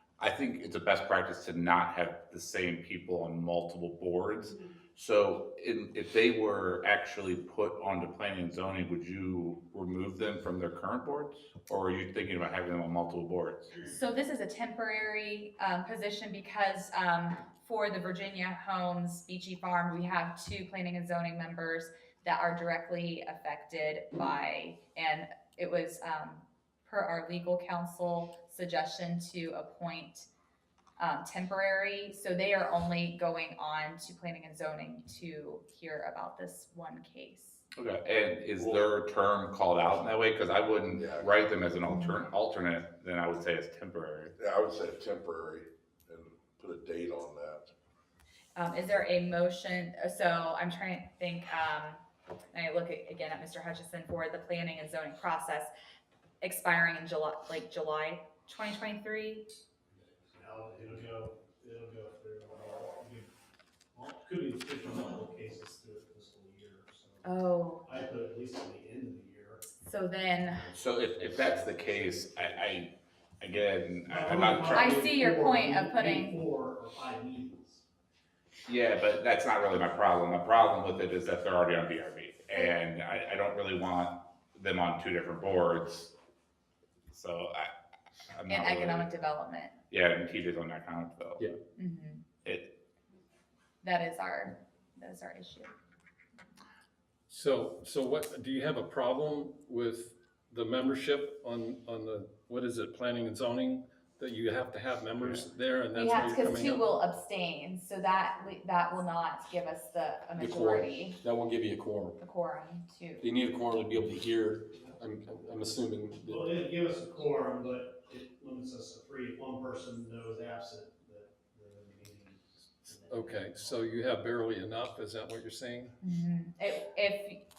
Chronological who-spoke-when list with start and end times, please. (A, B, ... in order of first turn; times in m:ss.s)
0:00.2-0:13.8 A
0:13.8-0:30.3 B
0:31.0-0:37.6 B
0:37.8-0:44.3 A
0:40.9-0:41.3 C
0:44.4-0:47.7 C
0:48.6-0:52.0 B
0:52.5-0:55.7 B
0:56.4-0:59.5 B
1:00.3-1:03.3 D
1:03.9-1:07.2 D
1:07.2-1:07.8 B
1:07.8-1:09.6 D
1:09.8-1:10.7 B
1:10.5-1:12.8 D
1:10.7-1:15.0 A
1:14.0-1:17.8 D
1:14.7-1:16.4 B
1:18.7-1:26.1 A
1:27.1-1:27.7 A
1:28.3-1:29.1 A
1:28.5-1:29.8 B
1:29.9-1:31.4 A
1:31.8-1:32.2 B
1:32.4-1:32.8 A
1:33.8-1:35.7 B
1:37.3-1:46.8 E
1:46.0-1:51.2 B
1:50.4-1:52.2 F
1:52.2-1:53.2 B
1:53.2-1:56.4 F
1:56.2-2:03.8 D
2:03.1-2:05.9 E
2:06.0-2:07.4 B